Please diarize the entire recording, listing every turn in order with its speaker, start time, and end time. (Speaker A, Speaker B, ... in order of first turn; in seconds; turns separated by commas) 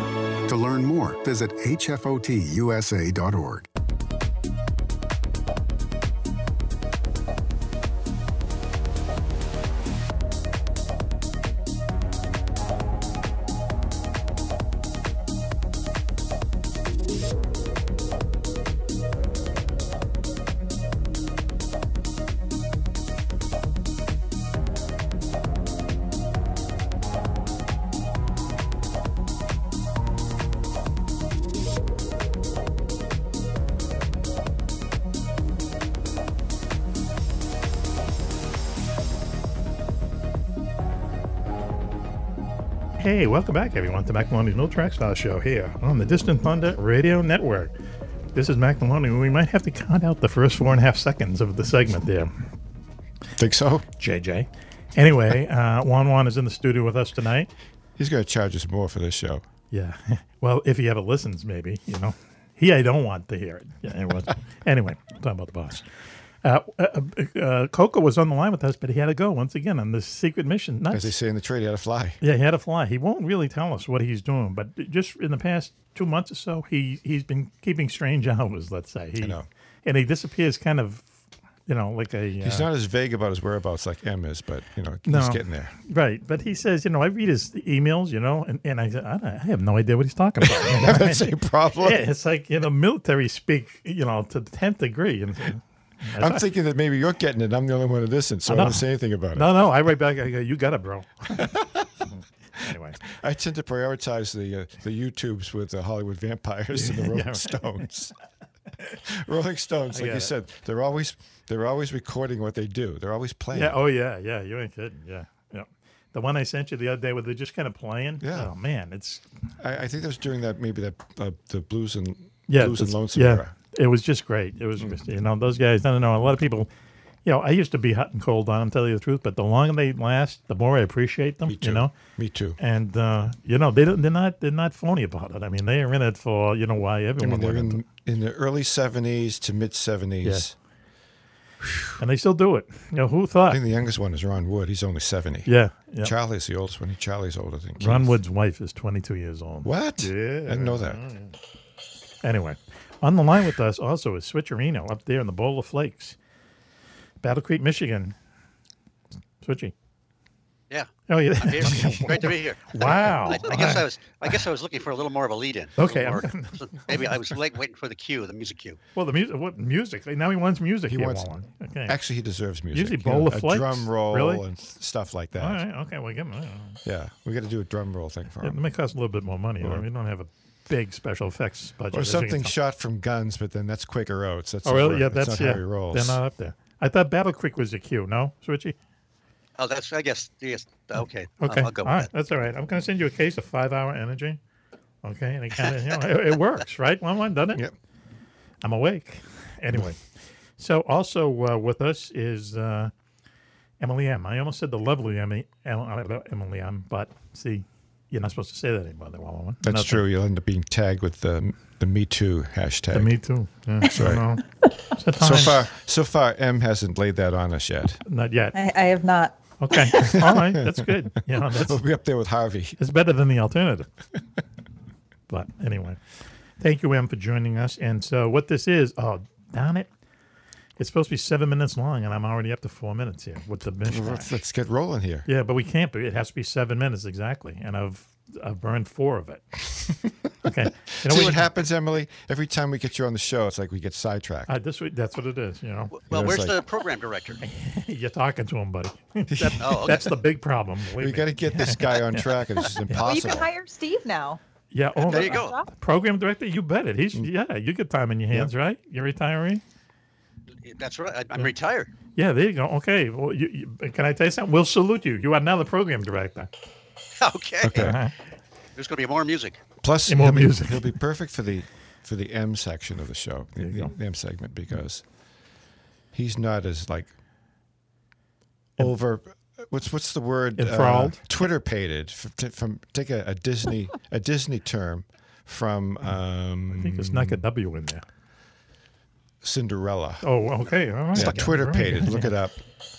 Speaker A: 0.5-3.6, Speaker B: 43.0-47.7, Speaker B: 48.3-52.3, Speaker C: 53.4-53.8, Speaker B: 54.0-57.5, Speaker C: 58.0-59.4, Speaker B: 59.7-65.8, Speaker B: 66.4-71.1, Speaker C: 70.9-72.2, Speaker B: 72.2-81.1, Speaker C: 79.2-79.5, Speaker B: 81.7-82.7, Speaker C: 82.4-85.8, Speaker B: 85.0-91.3, Speaker C: 90.4-92.0, Speaker B: 91.8-96.4, Speaker C: 96.2-99.5, Speaker B: 98.5-98.8, Speaker B: 99.3-101.5, Speaker C: 101.4-101.9, Speaker B: 102.1-103.0, Speaker C: 103.0-108.1, Speaker B: 106.7-107.6, Speaker C: 108.9-113.8, Speaker B: 109.9-110.3, Speaker B: 113.5-119.2, Speaker C: 118.2-118.5, Speaker C: 119.6-123.5, Speaker B: 122.5-126.7, Speaker B: 127.2-131.9, Speaker C: 131.5-132.6, Speaker B: 132.6-137.8, Speaker C: 137.2-140.5, Speaker B: 140.2-140.5, Speaker B: 142.0-143.6, Speaker C: 143.5-148.1, Speaker B: 145.4-146.1, Speaker B: 147.8-151.3, Speaker C: 149.6-151.0, Speaker B: 152.2-156.2, Speaker B: 157.2-158.1, Speaker B: 159.4-159.7, Speaker D: 160.7-168.8, Speaker B: 161.1-163.9, Speaker B: 165.8-167.1, Speaker B: 168.9-171.9, Speaker C: 170.9-171.3, Speaker C: 171.8-175.6, Speaker B: 172.7-174.4, Speaker B: 175.4-176.8, Speaker C: 176.8-178.6, Speaker B: 178.4-182.5, Speaker C: 181.9-186.2, Speaker B: 184.6-188.8, Speaker D: 189.6-192.1, Speaker B: 191.4-194.4, Speaker B: 195.0-197.6, Speaker B: 198.6-200.0, Speaker B: 200.6-202.9, Speaker B: 203.8-210.0, Speaker C: 209.6-213.1, Speaker B: 212.9-214.4, Speaker C: 213.8-214.2, Speaker B: 215.0-215.6, Speaker C: 215.2-218.0, Speaker B: 218.1-218.6, Speaker E: 218.5-219.9, Speaker B: 219.6-221.8, Speaker C: 219.9-222.8, Speaker B: 222.8-223.9, Speaker B: 225.3-226.0, Speaker B: 226.6-229.9, Speaker B: 230.8-234.3, Speaker C: 233.8-235.3, Speaker B: 235.3-241.4, Speaker C: 241.0-244.5, Speaker B: 244.5-245.9, Speaker D: 245.9-247.4, Speaker C: 246.1-246.6, Speaker B: 247.4-252.3, Speaker C: 249.3-250.0, Speaker D: 249.6-250.1, Speaker C: 251.0-253.5, Speaker B: 252.9-253.2, Speaker E: 252.9-254.4, Speaker B: 254.7-259.6, Speaker D: 255.0-255.6, Speaker E: 255.3-255.7, Speaker D: 260.6-261.9, Speaker B: 262.1-266.5, Speaker D: 267.2-268.0, Speaker C: 267.6-268.0, Speaker B: 267.8-268.1, Speaker D: 268.8-269.6, Speaker C: 269.8-275.0, Speaker B: 270.1-270.9, Speaker B: 273.6-273.9, Speaker C: 276.1-277.1, Speaker C: 278.8-287.4, Speaker B: 280.6-281.2, Speaker B: 286.7-288.0, Speaker C: 289.4-290.2, Speaker B: 290.2-292.3, Speaker C: 291.1-292.6